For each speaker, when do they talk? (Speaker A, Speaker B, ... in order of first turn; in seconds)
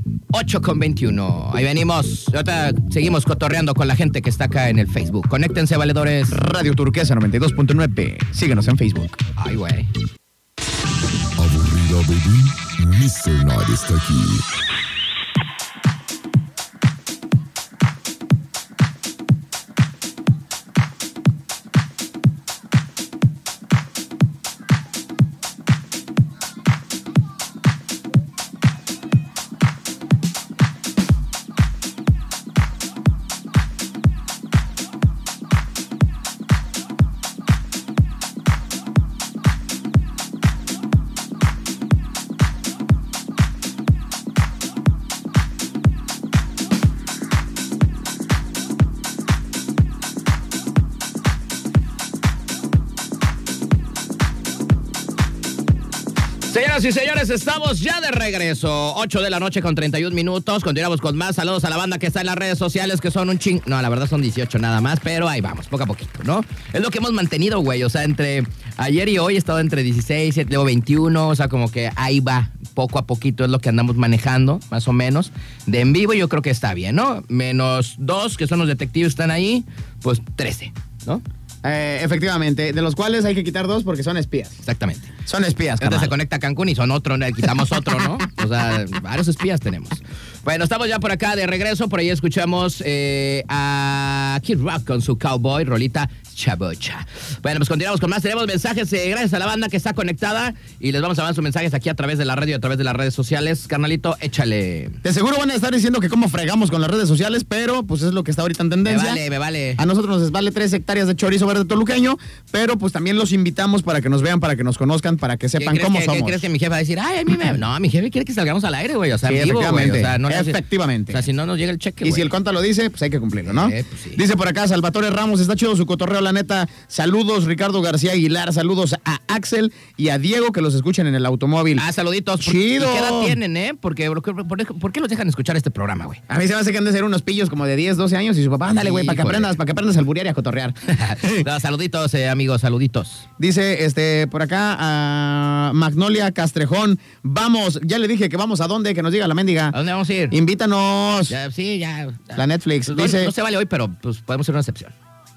Speaker A: 0.3-6.4, 9.4-9.9, 56.5-81.2, 84.6-85.1, 85.8-105.0, 108.8-109.8, 115.6-122.3, 123.5-124.2, 131.8-136.2, 138.7-139.5, 140.9-143.2, 149.7-150.4, 151.3-154.9
Speaker B: 6.3-9.2, 81.6-84.6, 85.2-86.1, 105.0-109.2, 109.8-116.4, 119.2-121.2, 122.0-131.8, 132.4-133.4, 136.3-141.4, 143.4-149.8, 150.3-151.3, 152.3-153.3
Speaker C: 11.4-14.4